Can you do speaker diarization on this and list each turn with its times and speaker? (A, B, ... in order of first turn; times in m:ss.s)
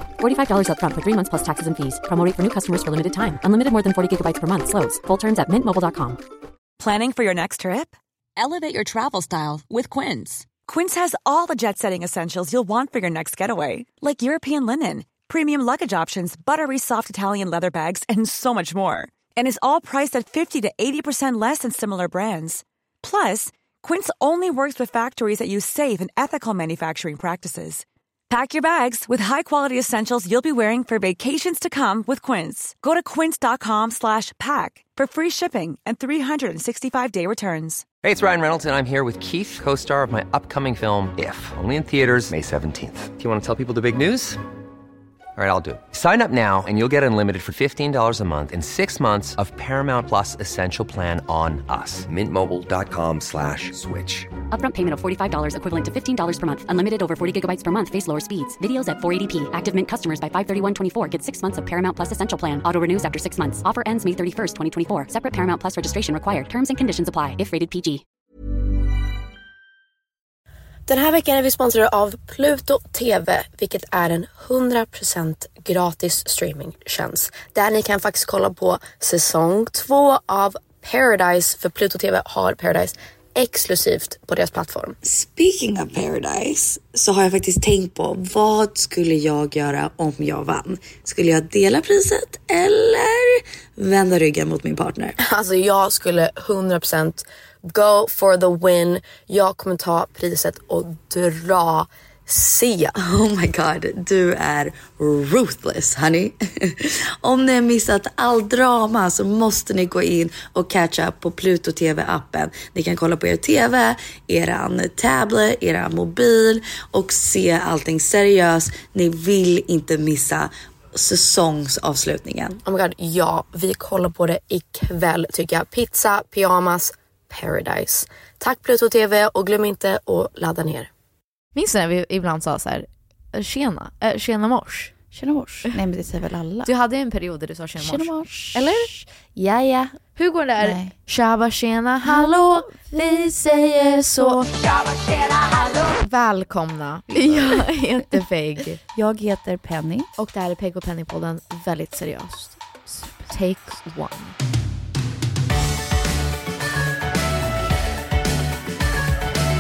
0:00.2-0:06.2 A
0:06.8-0:37.8 B
0:38.0-0:44.4 C
0:45.4-0:54.3 C
0:54.5-1:08.0 A
1:10.9-1:25.0 D
1:25.0-1:35.1 E
1:35.2-1:42.9 D
1:43.0-1:46.4 E
1:47.2-2:02.6 E
2:02.6-2:10.9 D
2:11.6-2:14.9 F
2:15.1-2:16.7 G
2:16.6-2:18.9 F
2:17.8-2:20.0 G
2:20.2-2:24.5 F
2:20.6-2:20.9 G
2:22.0-2:24.5 G
2:25.8-2:28.8 F
2:27.1-2:27.7 G
2:28.8-2:30.1 G
2:30.2-2:32.6 F
2:32.9-2:33.3 G
2:33.3-2:34.4 F